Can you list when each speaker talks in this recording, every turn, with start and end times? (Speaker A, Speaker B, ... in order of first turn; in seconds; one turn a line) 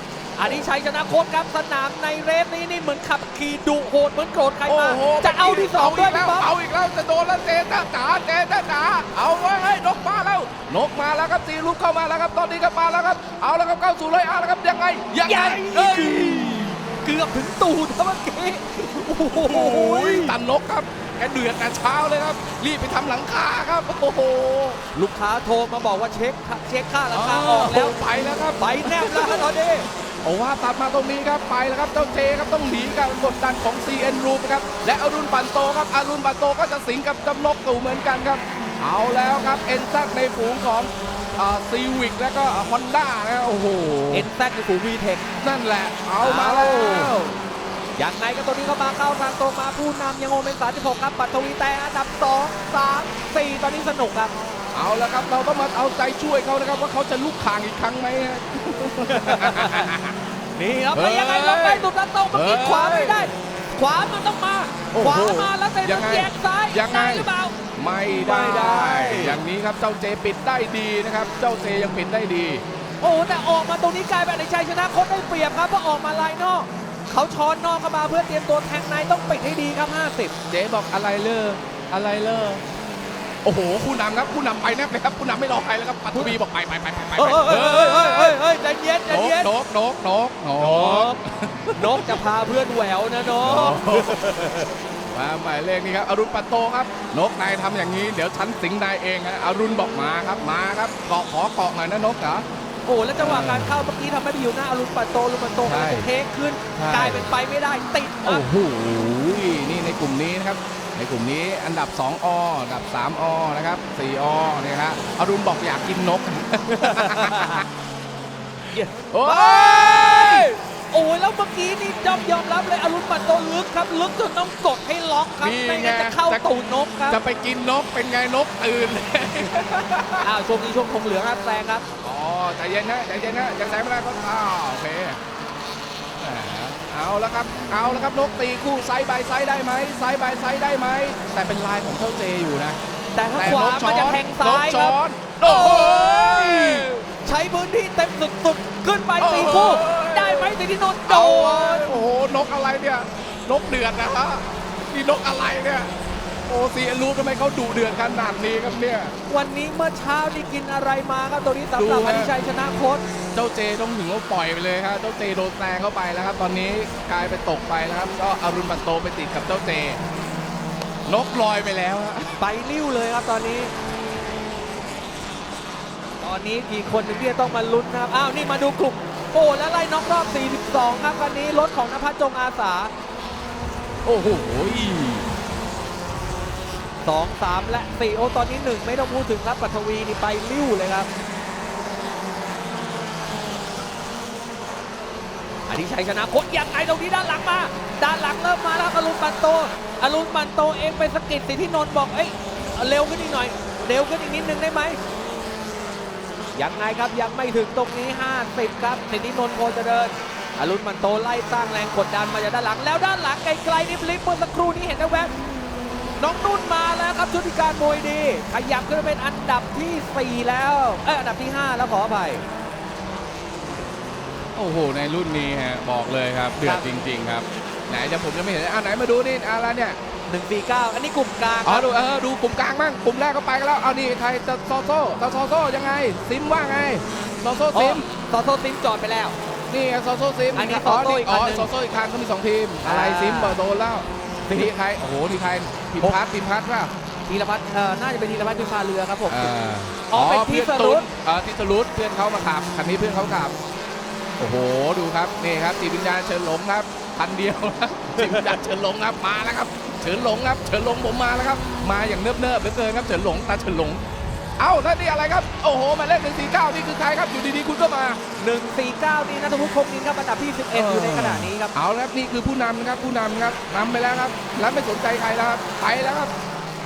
Speaker A: 0.4-6.5
Speaker B: 4.7-16.8
Speaker A: 15.2-20.4
Speaker B: 19.0-24.8
Speaker A: 24.9-28.0
Speaker B: 27.1-44.3
Speaker A: 28.6-29.9
Speaker A: 44.1-45.2
Speaker B: 45.4-47.4
Speaker A: 46.2-47.1
Speaker A: 48.0-54.3
Speaker B: 54.7-60.2
Speaker A: 59.1-59.9
Speaker A: 60.5-69.4
Speaker B: 60.9-63.3
Speaker B: 64.9-72.6
Speaker A: 73.0-80.3
Speaker B: 80.5-82.6
Speaker B: 83.4-88.4
Speaker A: 87.1-89.5
Speaker B: 89.1-92.2
Speaker A: 90.6-91.2
Speaker A: 91.7-94.8
Speaker B: 93.3-94.2
Speaker B: 95.1-102.5
Speaker A: 102.8-108.5
Speaker B: 103.2-103.9
Speaker B: 105.6-106.1
Speaker B: 106.7-107.3
Speaker B: 108.2-117.7
Speaker A: 116.7-117.7
Speaker B: 118.6-120.5
Speaker A: 118.7-127.2
Speaker B: 125.4-126.5
Speaker B: 127.1-130.3
Speaker A: 130.2-131.8
Speaker B: 132.0-135.2
Speaker B: 136.2-142.8
Speaker A: 143.1-151.9
Speaker B: 143.3-146.9
Speaker B: 149.2-155.9
Speaker B: 156.5-159.1
Speaker A: 159.3-163.0
Speaker B: 161.7-162.3
Speaker B: 163.3-170.0
Speaker B: 171.1-172.4
Speaker A: 172.4-173.7
Speaker A: 176.2-182.9
Speaker B: 184.0-185.3
Speaker A: 187.0-191.1
Speaker A: 195.7-205.0
Speaker A: 206.5-215.3
Speaker A: 216.2-222.4
Speaker B: 224.5-230.0
Speaker A: 226.6-226.9
Speaker A: 230.3-231.9
Speaker B: 231.6-238.1
Speaker A: 237.7-239.3
Speaker B: 239.7-246.9
Speaker A: 240.5-241.7
Speaker A: 242.8-243.6
Speaker A: 244.5-244.7
Speaker A: 247.3-249.5
Speaker B: 249.3-253.6
Speaker A: 250.1-251.1
Speaker B: 254.4-264.0
Speaker A: 258.1-258.6
Speaker B: 264.6-268.2
Speaker A: 268.4-271.7
Speaker B: 270.7-276.3